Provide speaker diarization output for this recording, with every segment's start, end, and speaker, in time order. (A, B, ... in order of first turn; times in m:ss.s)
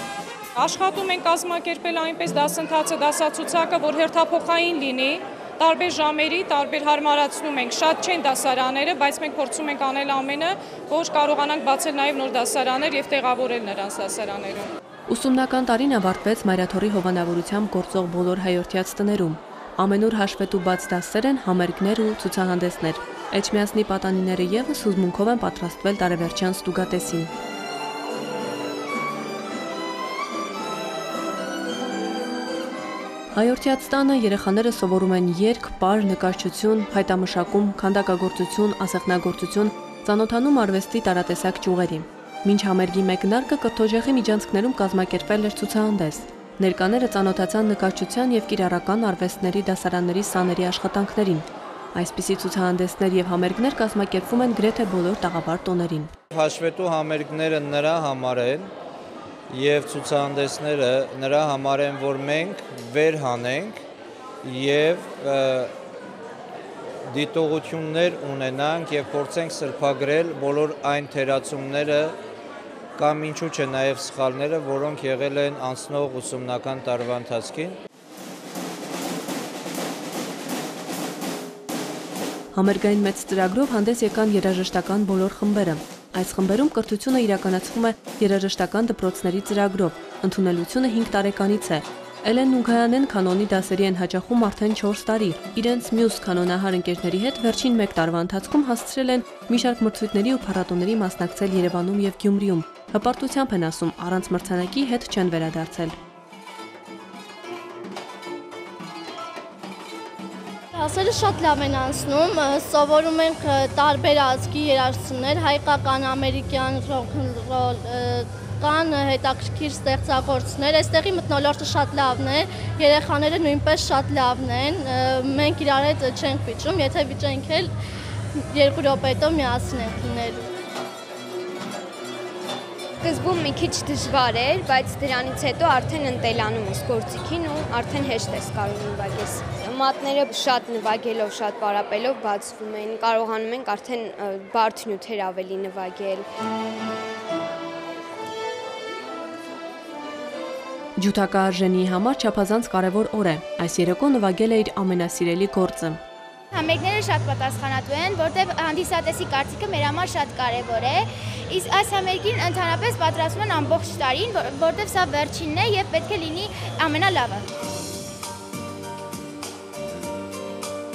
0:00.6-0:14.7 A
0:15.1-0:27.3 B
0:33.3-0:56.1 B
0:56.3-0:58.7 C
0:59.5-1:03.8 C
1:04.4-1:05.7 C
1:07.1-1:12.2 C
1:13.0-1:17.8 C
1:22.5-1:45.9 B
1:50.7-2:07.7 D
2:08.4-2:10.4 D
2:13.0-2:26.3 E
2:31.0-2:36.0 B
2:36.5-2:47.4 F